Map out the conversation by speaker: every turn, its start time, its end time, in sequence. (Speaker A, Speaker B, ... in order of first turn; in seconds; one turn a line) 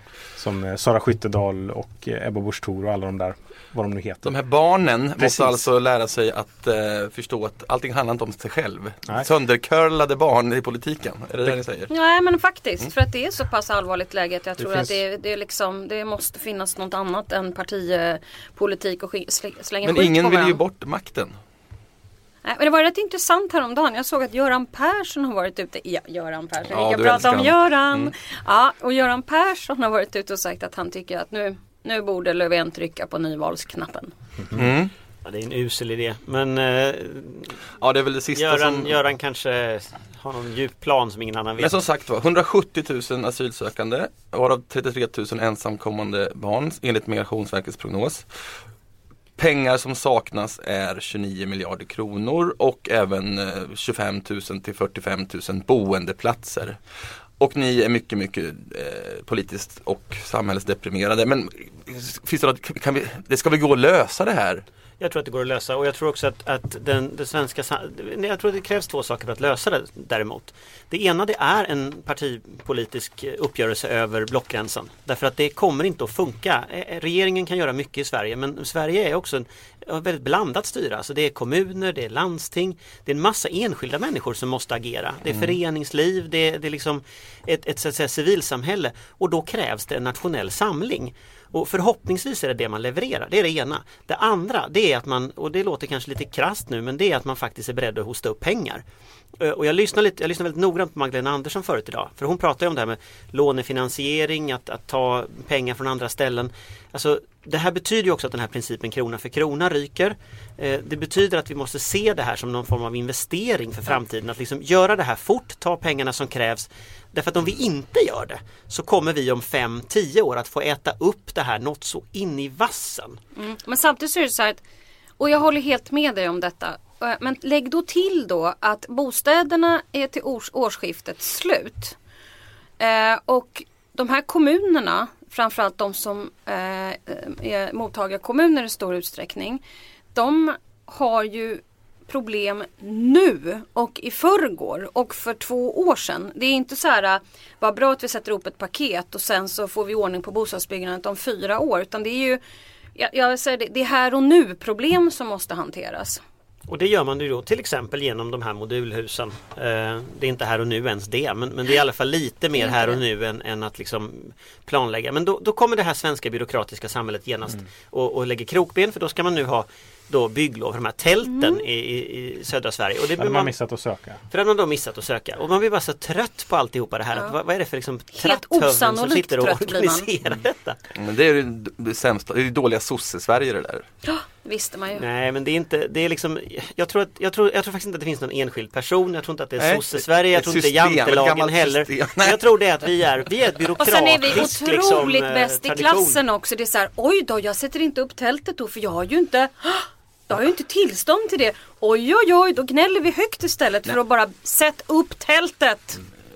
Speaker A: 0.3-4.3
Speaker B: 4.2-11.9
Speaker A: 5.2-5.7
Speaker C: 11.9-20.6
Speaker A: 14.6-15.0
Speaker B: 19.8-21.4
Speaker C: 22.4-34.1
Speaker B: 26.7-28.1
Speaker B: 34.5-34.9
Speaker D: 35.2-37.5
Speaker B: 37.8-39.0
Speaker D: 38.3-41.8
Speaker B: 41.6-48.2
Speaker B: 49.4-56.8
Speaker B: 57.4-64.6
Speaker D: 65.0-98.8
Speaker D: 99.4-123.2
Speaker C: 123.3-124.6
Speaker C: 125.2-131.9
Speaker C: 132.8-139.6
Speaker C: 140.1-152.4
Speaker C: 152.9-156.2
Speaker D: 156.7-173.5
Speaker C: 162.6-163.0
Speaker C: 171.3-171.6
Speaker A: 173.2-174.2
Speaker D: 174.3-180.8
Speaker C: 178.1-180.1
Speaker B: 180.9-183.8
Speaker C: 184.0-185.0
Speaker D: 184.9-196.2
Speaker B: 189.6-192.4
Speaker C: 193.8-206.0